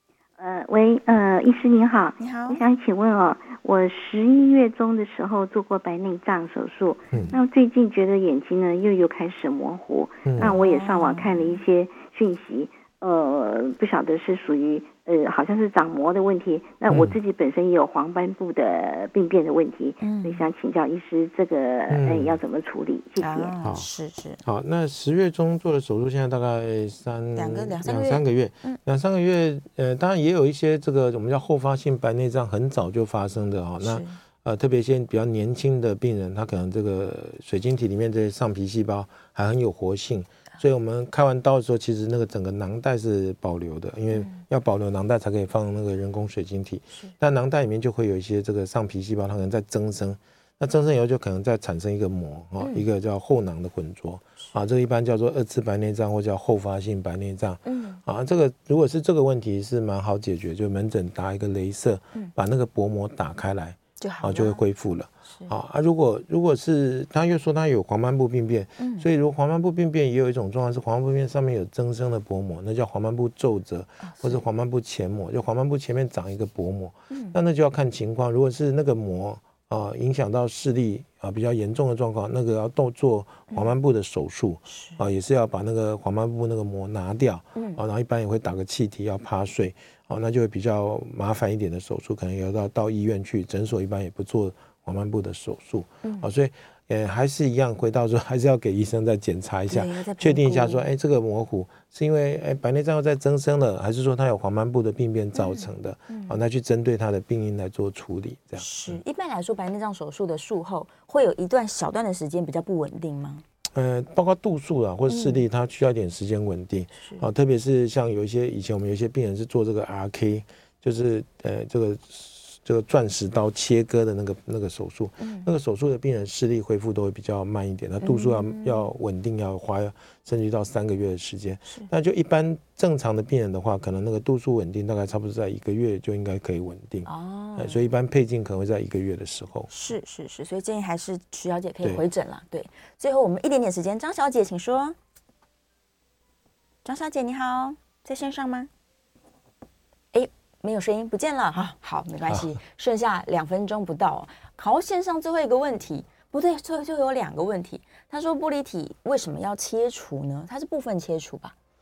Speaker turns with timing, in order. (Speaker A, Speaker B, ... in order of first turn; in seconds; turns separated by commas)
Speaker A: 0.4-23.6, Speaker B: 2.2-2.6, Speaker C: 7.1-7.4, Speaker C: 10.3-10.6, Speaker B: 10.4-11.6, Speaker C: 16.9-17.2, Speaker B: 20.0-20.5, Speaker C: 21.9-22.4, Speaker B: 23.2-24.4, Speaker C: 23.6-23.9, Speaker C: 24.4-109.0, Speaker B: 27.3-28.8, Speaker B: 33.8-34.2, Speaker B: 44.1-44.4, Speaker B: 52.6-52.9, Speaker B: 57.6-58.0, Speaker B: 64.0-64.6, Speaker B: 68.8-69.1, Speaker B: 74.0-74.4, Speaker B: 77.1-77.4, Speaker B: 84.7-85.0, Speaker B: 87.6-87.8, Speaker B: 96.0-96.3, Speaker B: 99.7-100.8, Speaker B: 105.3-106.4, Speaker B: 108.6-113.4, Speaker C: 113.7-139.7, Speaker B: 115.1-115.5, Speaker B: 117.0-117.2, Speaker B: 125.2-125.5, Speaker B: 128.0-128.9, Speaker B: 137.1-137.8, Speaker B: 139.7-145.0, Speaker B: 146.8-148.7, Speaker B: 150.1-161.5, Speaker C: 152.3-152.6